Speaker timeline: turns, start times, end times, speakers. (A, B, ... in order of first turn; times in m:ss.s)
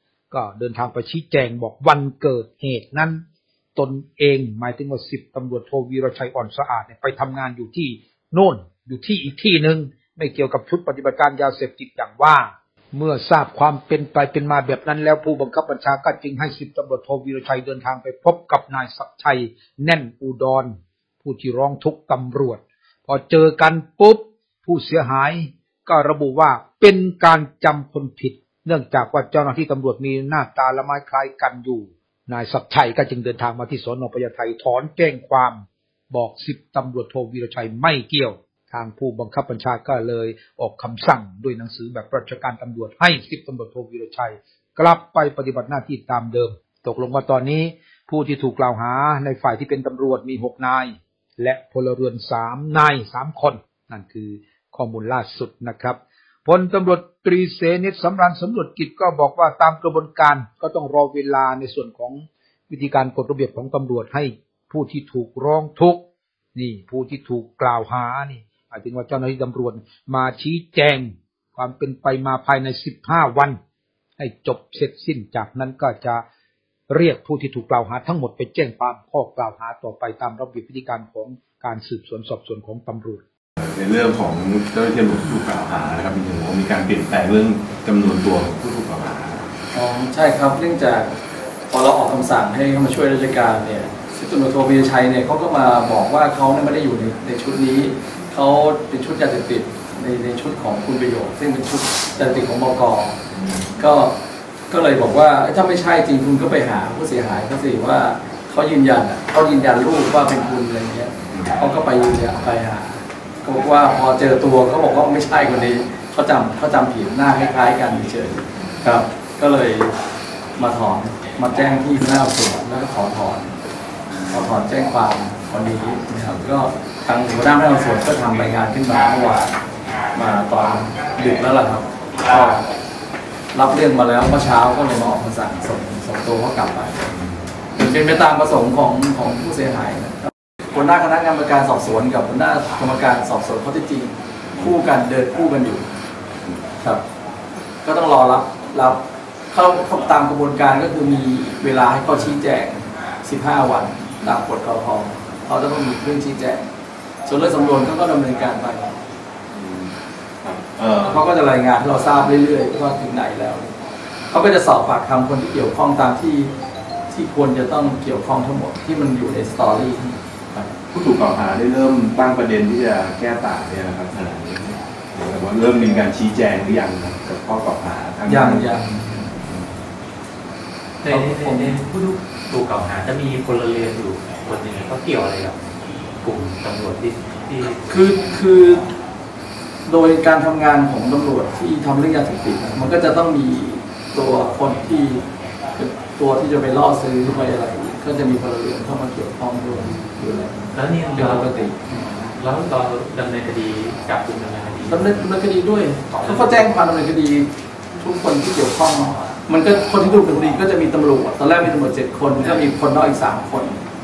0:00.3-0:03.2 A
0:03.8-1:06.0 A
1:06.5-1:13.6 A
1:14.2-1:16.2 A
1:16.9-1:23.2 A
1:23.6-1:29.5 B
1:29.7-1:31.1 C
1:31.7-1:43.2 C
1:43.8-1:44.2 C
1:44.7-1:59.9 C
1:51.3-1:51.6 B
2:00.6-2:03.6 C
2:04.3-2:09.6 C
2:10.1-2:12.7 C
2:13.5-2:17.1 C
2:17.7-2:25.9 C
2:27.8-2:36.7 C
2:37.2-2:39.0 C
2:39.5-2:41.3 B
2:41.0-2:43.7 C
2:44.3-2:46.5 C
2:47.1-2:50.7 C
2:50.9-2:59.7 B
2:58.3-2:59.3 C
3:01.0-3:05.6 D
3:01.1-3:01.8 C
3:06.2-3:08.0 D
3:07.9-3:08.9 C
3:09.8-3:21.8 C
3:20.7-3:25.3 D
3:24.9-3:33.8 C
3:26.1-3:26.7 D